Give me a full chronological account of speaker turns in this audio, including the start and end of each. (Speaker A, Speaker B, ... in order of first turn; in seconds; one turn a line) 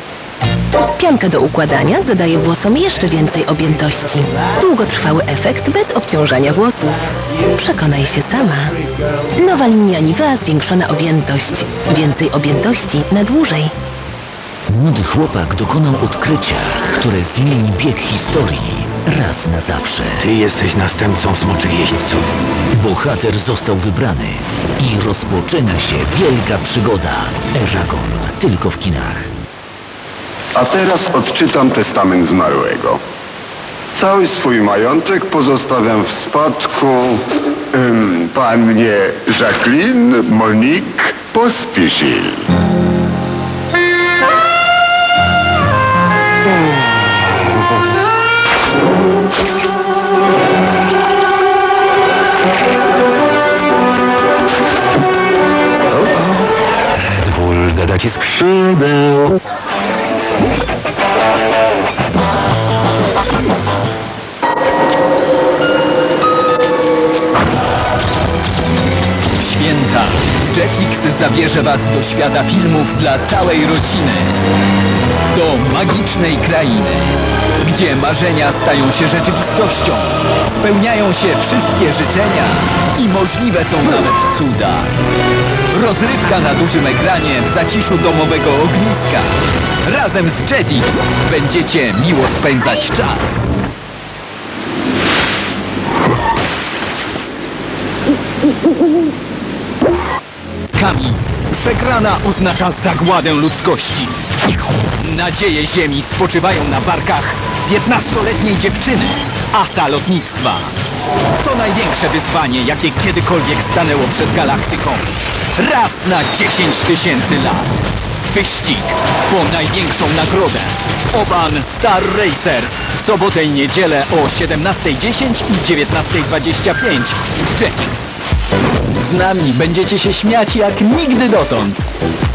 Speaker A: 1.0-8.8
Speaker A: 9.4-13.7
Speaker B: 14.7-20.3
Speaker C: 20.2-22.2
Speaker B: 22.7-29.3
Speaker D: 30.6-33.0
Speaker D: 33.9-42.4
Speaker C: 57.2-58.9
Speaker E: 69.4-74.4
Speaker E: 75.3-84.9
Speaker E: 85.7-89.3
Speaker E: 89.8-93.5
Speaker E: 100.8-104.2
Speaker E: 105.0-110.7
Speaker E: 111.4-128.1
Speaker E: 129.0-131.9